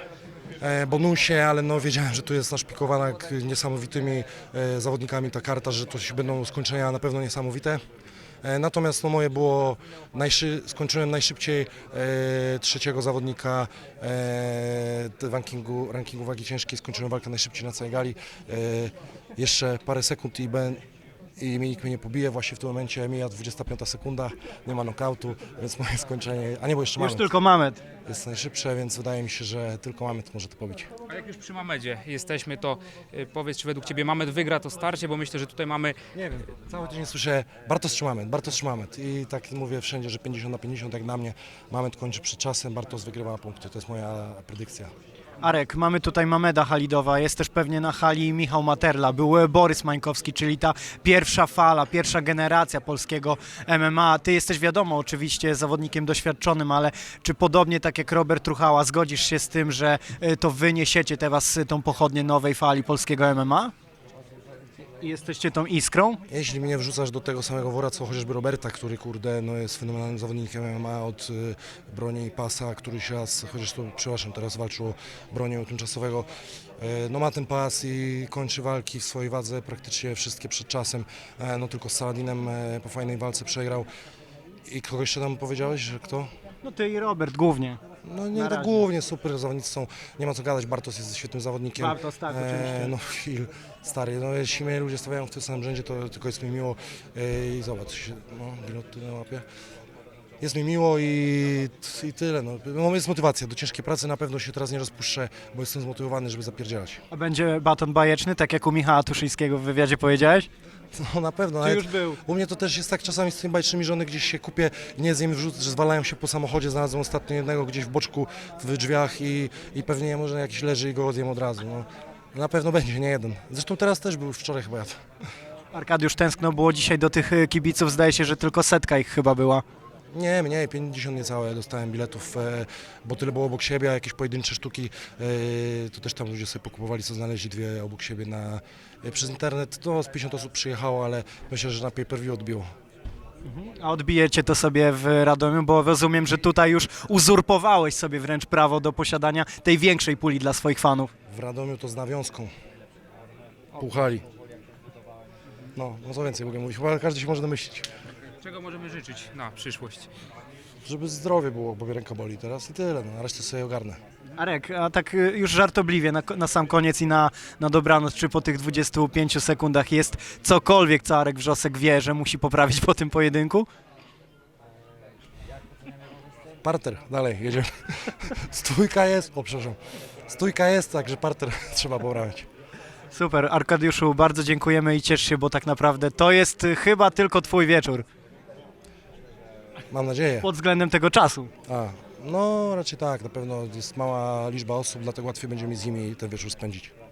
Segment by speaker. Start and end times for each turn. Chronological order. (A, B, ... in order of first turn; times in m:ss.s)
0:00.6-0:07.8 A
0:08.4-0:20.8 A
0:21.4-0:27.3 A
0:27.0-0:27.8 B
0:28.1-0:30.9 A
0:31.1-0:36.0 C
0:36.1-0:44.9 A
0:45.4-1:03.7 B
1:05.0-1:06.2 B
1:06.3-1:23.9 A
1:24.6-1:26.3 A
1:26.6-1:27.8 B
1:28.0-1:39.4 A
1:28.3-1:28.8 B
1:31.8-1:32.9 B
1:40.4-1:47.0 A
1:47.1-1:50.5 B
1:50.9-2:05.0 A
1:51.6-1:52.2 B
2:05.7-2:09.6 B
2:10.1-2:22.7 A
2:23.4-2:31.1 B
2:31.3-2:32.5 A
2:33.7-2:34.2 A
2:35.8-2:37.9 A
2:38.4-2:40.1 C
2:40.8-2:44.0 A
2:44.4-2:53.7 B
2:56.6-2:59.8 A
3:00.3-3:02.5 A
3:03.1-3:08.0 B
3:09.9-3:10.5 A
3:10.4-3:11.5 B
3:11.7-3:16.9 A